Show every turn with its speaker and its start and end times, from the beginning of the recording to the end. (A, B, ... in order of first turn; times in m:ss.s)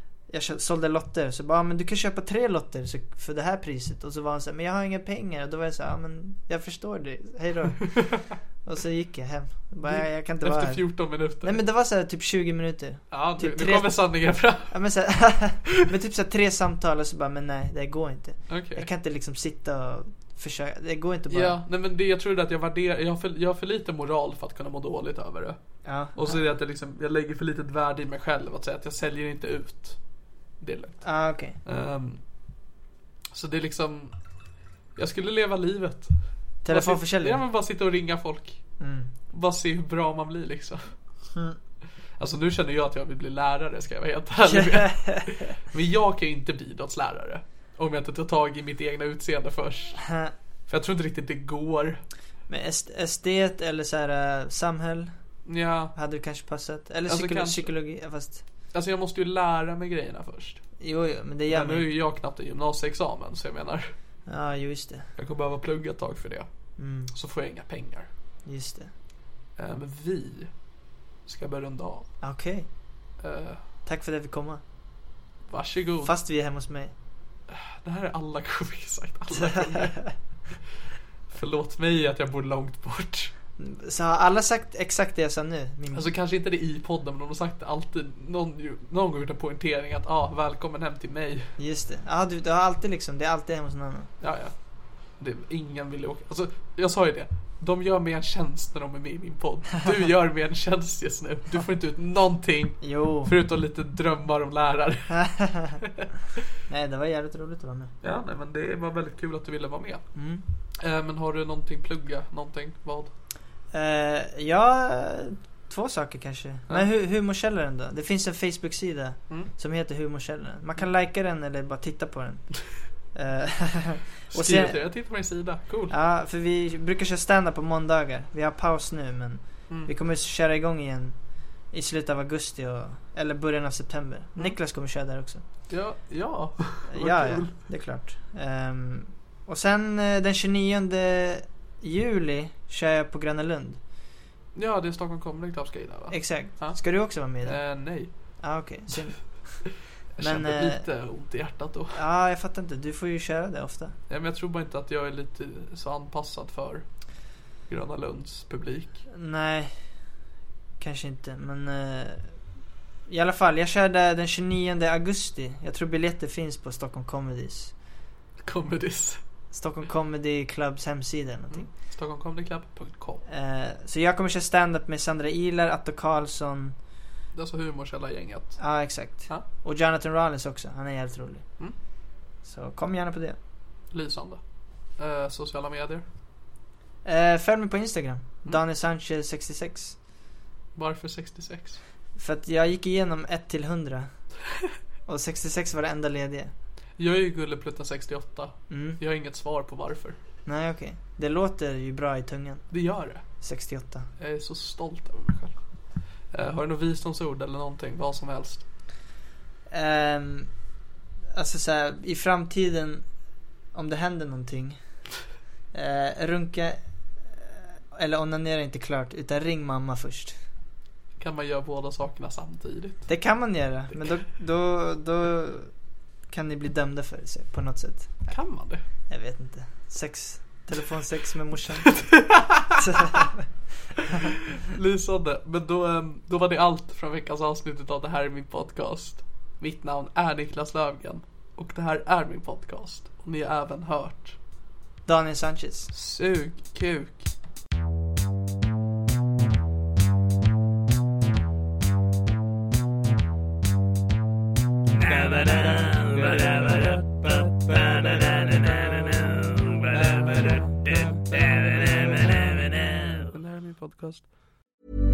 0:00.3-0:08.0 A
0:07.9-0:08.2 B
0:08.6-0:14.1 A
0:09.8-0:11.6 B
0:13.1-0:14.8 B
0:14.7-0:21.6 A
0:18.5-0:18.9 B
0:21.3-0:25.6 B
0:25.8-0:26.4 A
0:26.1-0:30.0 B
0:30.6-0:31.1 B
0:31.0-0:31.6 A
0:31.6-0:32.2 B
0:33.3-0:34.1 B
0:35.0-0:36.2 B
0:36.6-0:37.4 A
0:36.7-0:38.6 B
0:38.8-0:39.1 A
0:39.3-0:40.9 B
0:42.2-0:50.0 B
0:44.5-0:45.5 A
0:50.0-0:50.3 A
0:50.7-0:52.0 B
0:52.5-0:55.1 A
0:55.5-0:55.9 B
0:56.0-0:58.4 A
0:57.1-0:57.7 B
0:58.7-1:00.6 B
1:00.8-1:01.9 A
1:01.5-1:03.9 B
1:04.3-1:05.1 A
1:05.2-1:06.5 B
1:06.8-1:07.1 A
1:07.1-1:08.1 B
1:08.5-1:08.9 A
1:09.6-1:10.5 B
1:11.3-1:12.1 B
1:12.2-1:12.7 A
1:13.2-1:13.6 B
1:13.9-1:14.6 A
1:15.5-1:16.1 B
1:16.0-1:16.9 A
1:17.5-1:20.1 B
1:19.3-1:20.1 A
1:21.3-1:23.3 B
1:23.6-1:26.1 A
1:25.9-1:31.5 B
1:31.6-1:34.1 A
1:34.2-1:34.5 B
1:35.2-1:45.2 B
1:42.8-1:43.3 A
1:45.1-1:45.8 A
1:45.8-1:46.1 B
1:46.7-1:47.9 A
1:48.0-1:50.0 B
1:50.2-1:50.4 A
1:50.8-1:53.1 B
1:53.7-2:02.6 A
2:03.1-2:04.8 A
2:04.3-2:06.0 B
2:05.9-2:11.2 A
2:11.7-2:15.4 A
2:15.7-2:17.6 B
2:16.9-2:23.8 A
2:24.6-2:26.8 B
2:26.1-2:27.6 A
2:27.4-2:28.1 B
2:28.4-2:29.2 A
2:30.2-2:32.0 B
2:30.2-2:30.8 A
2:31.9-2:34.0 A
2:34.1-2:36.8 B
2:37.7-2:39.0 B
2:39.1-2:39.7 A
2:40.8-2:42.3 A
2:43.1-2:47.7 A
2:48.4-2:49.2 B
2:49.5-2:51.7 A
2:51.5-2:53.2 B
2:53.3-2:56.8 A
2:57.4-2:58.7 B
2:58.6-3:01.4 A
3:02.4-3:03.4 A
3:03.9-3:04.4 B
3:05.0-3:06.0 B
3:07.0-3:10.0 A
3:10.8-3:11.8 B
3:12.2-3:14.1 A
3:15.1-3:16.5 A
3:17.0-3:20.2 B
3:18.7-3:19.0 A
3:20.5-3:22.6 A
3:22.7-3:23.2 B
3:23.4-3:24.1 A
3:24.2-3:25.6 B
3:26.3-3:28.6 B
3:29.7-3:30.5 A
3:31.3-3:33.1 A
3:33.7-3:34.8 A
3:35.7-3:40.4 A
3:41.2-3:43.1 B
3:43.1-3:45.7 A
3:46.3-3:48.2 A
3:48.3-3:48.8 B
3:49.1-3:52.0 A
3:51.9-3:53.2 B
3:52.8-3:53.4 A
3:54.1-3:54.3 A
3:54.3-4:04.4 B
4:05.1-4:05.9 A
4:05.9-4:07.3 B
4:15.0-4:24.3 B